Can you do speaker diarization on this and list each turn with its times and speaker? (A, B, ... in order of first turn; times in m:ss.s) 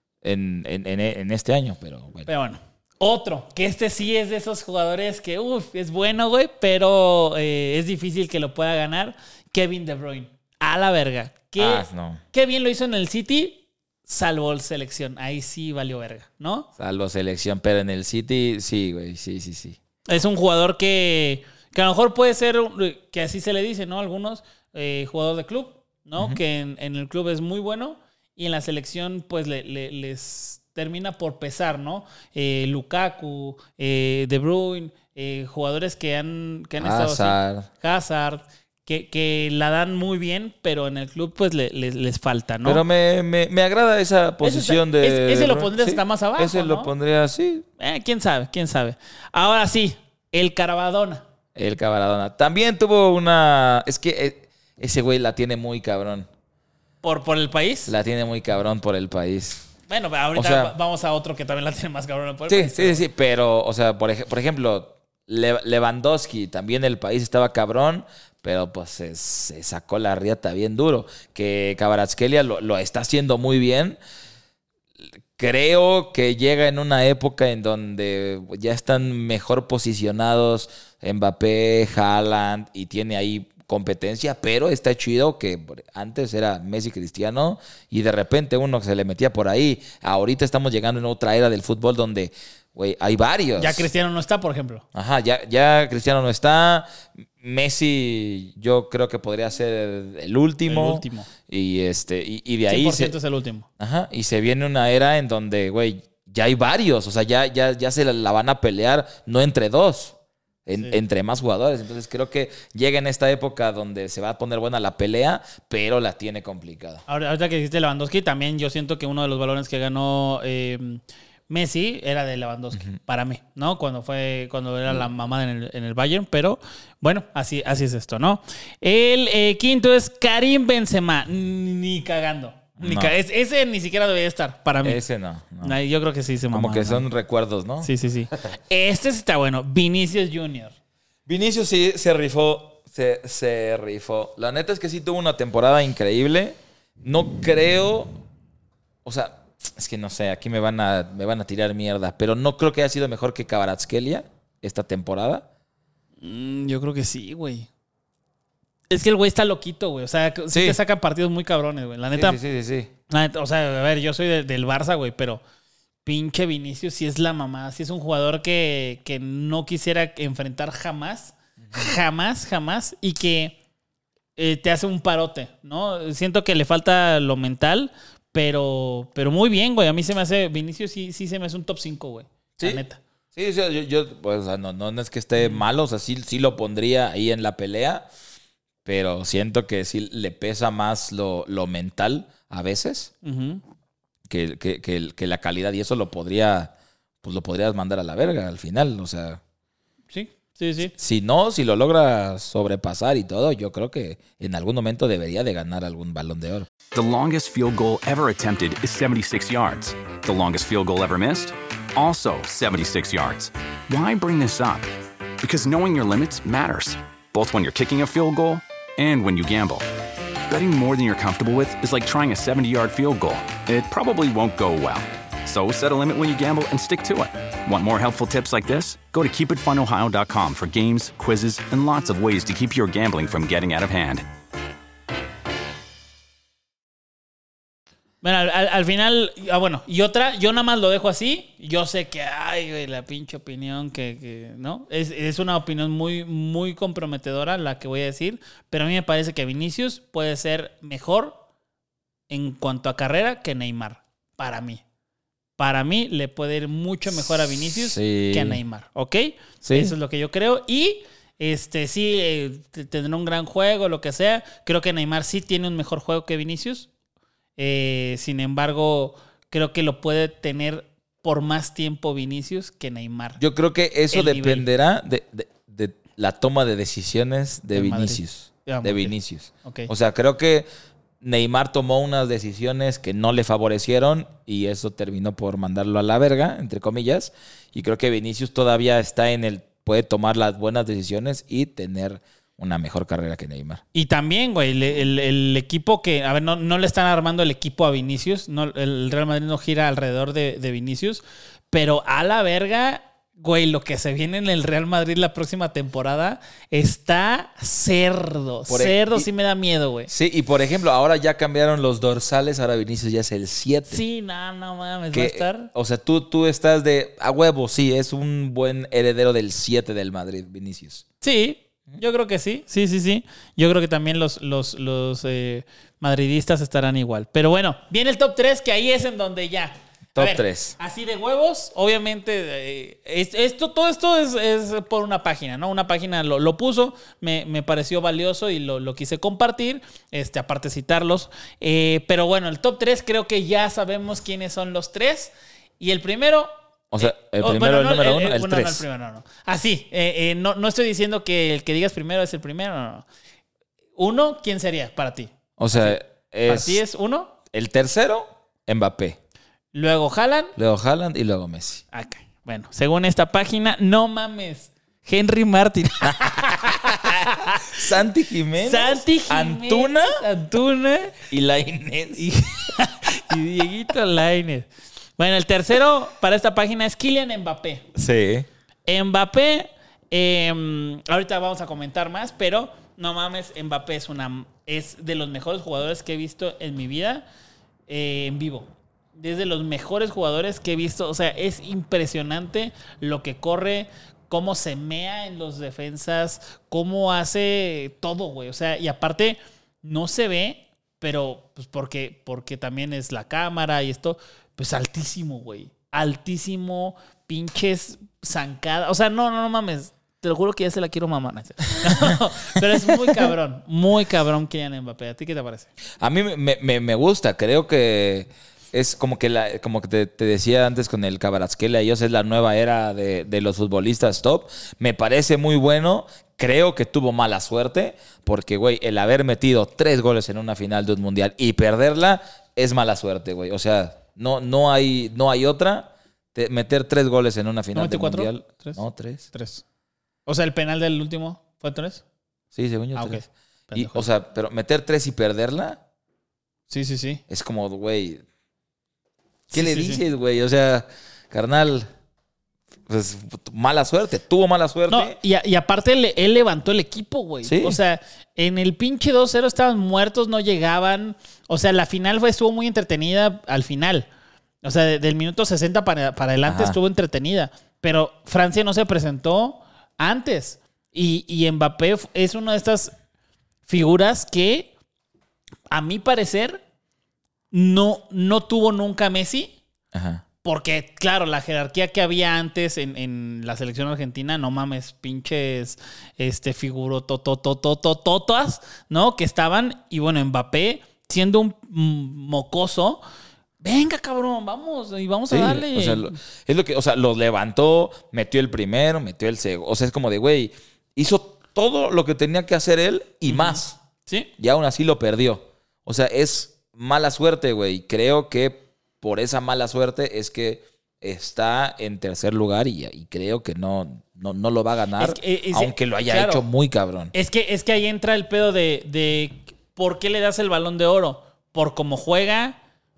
0:00.2-0:02.3 A
0:02.3-0:16.7 B
0:11.6-0:12.2 A
0:16.8-0:19.8 A
0:20.1-0:42.8 B
0:36.8-0:37.7 A
0:42.6-0:47.6 A
0:44.4-0:46.9 B
0:47.8-0:51.2 B
0:51.6-0:56.3 A
0:57.0-0:57.9 B
0:57.8-0:59.7 A
0:59.9-1:03.0 B
1:00.3-1:00.7 A
1:02.5-1:14.0 A
1:15.0-1:33.9 A
1:33.6-1:34.8 B
1:34.9-1:43.1 A
1:40.7-1:41.3 B
1:42.7-1:43.7 B
1:43.8-1:50.1 A
1:50.6-1:57.0 A
1:57.1-2:15.0 B
2:12.8-2:13.1 A
2:14.8-2:15.8 A
2:15.6-2:17.0 B
2:16.5-2:17.9 A
2:17.8-2:20.7 B
2:21.2-2:28.1 A
2:29.0-2:35.4 A
2:36.2-2:37.7 B
2:38.9-2:42.4 B
2:40.5-2:40.8 A
2:42.1-2:42.9 A
2:43.1-2:45.4 B
2:46.0-2:53.6 B
2:54.4-3:03.0 B
3:03.3-3:08.0 A
3:08.8-3:13.1 A
3:13.2-3:13.6 B
3:14.3-3:16.7 A
3:17.2-3:19.4 A
3:20.1-3:20.9 B
3:20.9-3:26.7 A
3:26.9-3:34.9 C
3:35.4-3:39.8 C
3:40.5-3:54.2 C
3:58.2-4:11.4 B
4:12.3-4:14.8 B
4:15.6-4:26.9 B
4:17.6-4:18.6 A
4:19.6-4:19.9 A
4:27.6-4:33.4 B
4:33.4-4:40.7 A
4:34.1-4:34.6 B
4:37.7-4:39.9 B
4:41.2-4:53.8 A
4:53.9-5:10.1 B
5:08.7-5:09.3 A
5:10.1-5:14.0 A
5:13.9-5:15.7 B
5:15.1-5:21.0 A
5:21.2-5:53.0 B
5:30.1-5:30.7 A
5:46.9-5:48.8 A
5:54.0-5:57.3 B
5:55.6-5:56.8 A
5:57.5-5:59.2 A
5:59.7-6:00.5 B
6:00.6-6:01.8 A
6:01.9-6:07.8 B
6:06.0-6:10.2 A
6:08.6-6:11.2 B
6:11.3-6:12.3 A
6:12.2-6:14.7 B
6:15.2-6:17.8 B
6:17.9-6:18.5 A
6:18.9-6:27.2 B
6:27.9-6:55.7 B
6:56.0-7:19.2 A
7:17.7-7:18.8 B
7:19.3-7:19.6 B
7:20.2-7:22.0 B
7:22.5-7:23.2 A
7:22.9-7:24.0 B
7:23.7-7:25.8 A
7:26.7-7:27.2 B
7:27.3-7:28.2 A
7:29.5-7:31.9 A
7:29.5-7:30.0 B
7:32.9-7:35.2 A
7:34.9-7:44.1 B
7:37.4-7:37.8 A
7:44.6-7:52.9 B
7:46.4-7:46.8 A
7:53.7-7:54.7 B
7:55.7-7:56.6 B
7:57.5-7:59.6 B
7:59.9-8:00.2 A
8:00.4-8:13.0 B
8:13.6-8:16.2 B
8:15.3-8:23.8 A
8:23.3-8:24.3 B
8:24.4-8:37.1 A
8:35.0-8:36.4 B
8:37.1-8:42.6 B